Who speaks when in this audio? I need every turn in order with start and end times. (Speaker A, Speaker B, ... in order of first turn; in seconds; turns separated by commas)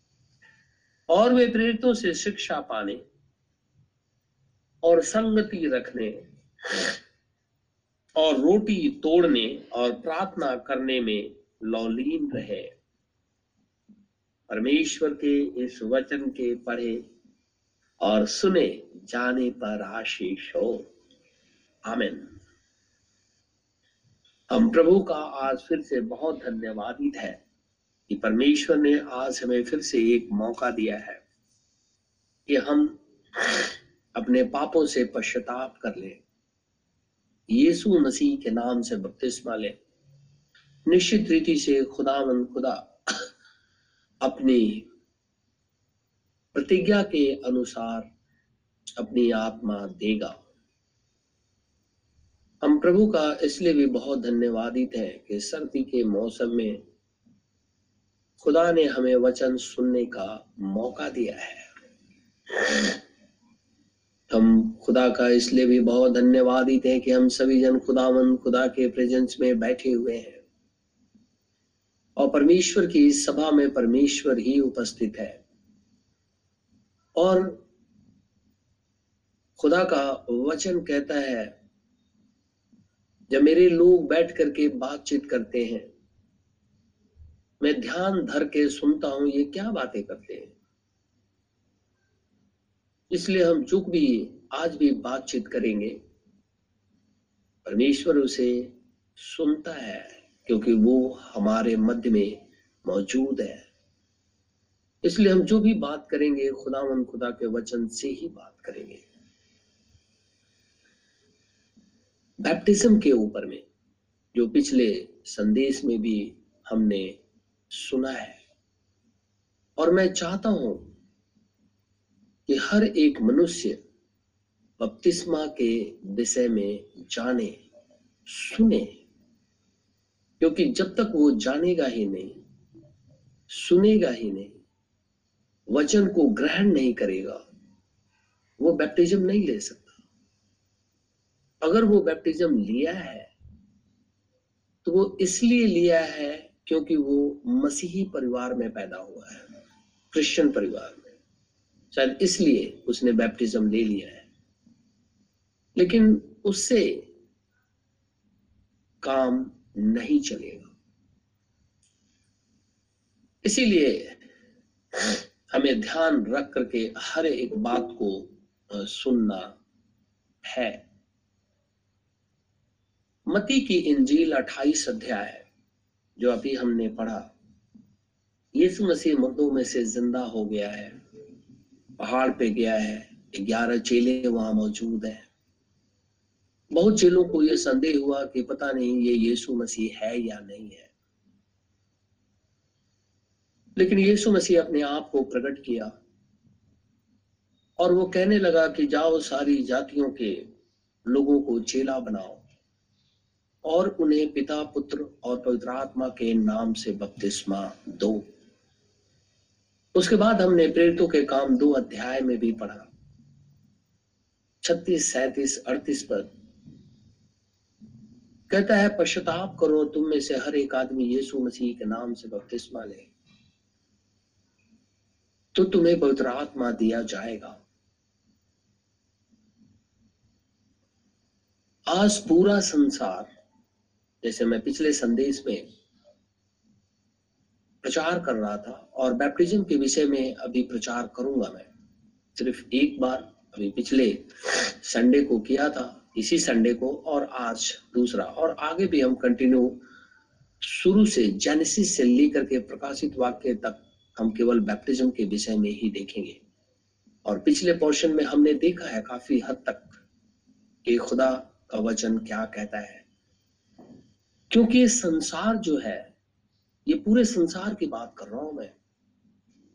Speaker A: 1.1-3.0, Speaker A: 4.8-7.0, Speaker A: 8.2-12.7, Speaker A: 14.5-17.0, Speaker A: 18.0-20.9, Speaker A: 21.9-22.3, Speaker A: 24.5-27.4, Speaker A: 28.1-31.2, Speaker A: 32.5-36.2, Speaker A: 37.5-39.7, Speaker A: 40.9-43.2, Speaker A: 44.2-44.9, Speaker A: 46.5-48.1, Speaker A: 49.0-50.4, Speaker A: 52.6-56.8, Speaker A: 58.4-61.7, Speaker A: 62.5-63.0, Speaker A: 64.3-70.4, Speaker A: 72.2-75.4, Speaker A: 77.2-77.6, Speaker A: 79.6-81.5, Speaker A: 83.3-85.9, Speaker A: 87.6-90.5, Speaker A: 93.1-96.0, Speaker A: 97.6-103.6, Speaker A: 105.0-109.0, Speaker A: 112.4-113.6, Speaker A: 114.3-117.1, Speaker A: 117.7-118.4, Speaker A: 119.8-120.9, Speaker A: 122.5-123.8, Speaker A: 124.8-127.6, Speaker A: 128.3-128.9, Speaker A: 130.4-132.3, Speaker A: 133.5-134.5, Speaker A: 135.7-137.4, Speaker A: 138.6-139.9, Speaker A: 141.6-143.3, Speaker A: 144.8-149.5, Speaker A: 150.1-151.1, Speaker A: 151.9-154.2, Speaker A: 155.8-157.1, Speaker A: 159.0-160.7, Speaker A: 163.4-164.2, Speaker A: 164.9-169.5, Speaker A: 170.4-170.8, Speaker A: 173.3-175.4, Speaker A: 176.2-177.3, Speaker A: 178.5-180.9, Speaker A: 182.0-185.2, Speaker A: 186.7-190.9, Speaker A: 193.8-195.9, Speaker A: 197.8-200.4, Speaker A: 201.1-202.4, Speaker A: 203.6-208.2, Speaker A: 209.9-212.9, Speaker A: 214.6-216.3, Speaker A: 218.5-223.1, Speaker A: 225.5-227.6, Speaker A: 231.9-233.3, Speaker A: 234.2-235.6, Speaker A: 237.8-241.7, Speaker A: 242.3-249.8, Speaker A: 250.6-256.4, Speaker A: 257.2-260.0, Speaker A: 260.8-263.0, Speaker A: 264.5-266.1, Speaker A: 266.9-268.7